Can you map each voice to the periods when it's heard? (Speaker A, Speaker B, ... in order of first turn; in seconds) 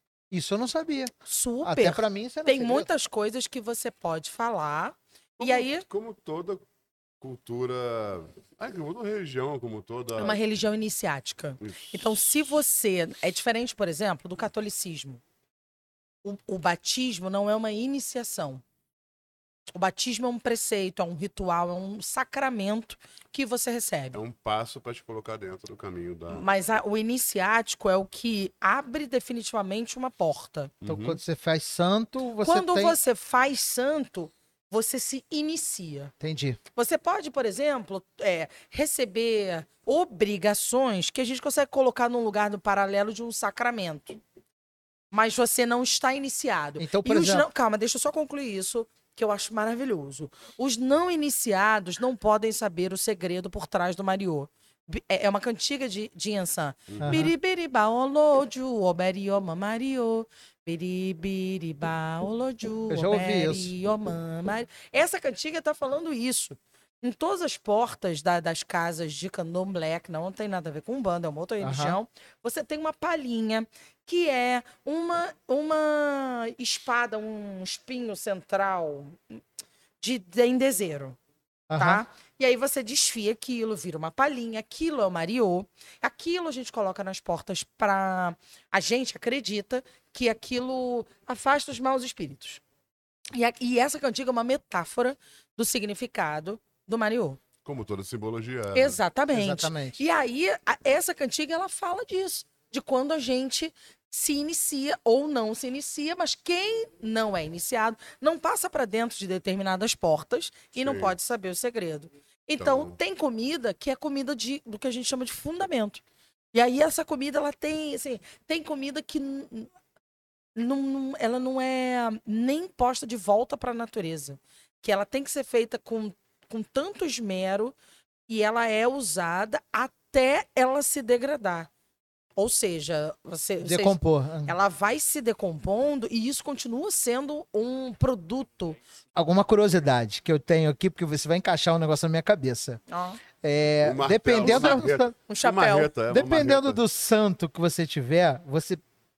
Speaker A: 0.3-2.9, 30.9-33.0, 36.2-36.6, 46.8-47.5, 57.0-57.3, 62.9-63.7, 71.6-72.0, 81.7-82.0, 99.3-100.0, 133.6-134.5, 139.1-142.8, 143.4-145.1, 146.1-148.8
Speaker B: 1.2-5.8, 10.2-15.2, 16.2-18.6, 19.7-24.2, 26.3-30.7, 32.4-36.1, 36.7-44.2, 45.1-79.4, 80.0-81.2, 81.7-92.6, 93.3-97.4, 98.7-119.7, 120.5-127.8, 128.3-131.7, 132.3-138.8, 142.9-143.2, 144.4-145.9
Speaker C: 5.4-6.6, 7.2-10.4, 11.6-12.1, 24.1-26.4, 30.8-31.2, 56.9-57.3, 97.6-99.0, 110.8-111.2, 112.6-113.0, 143.8-146.8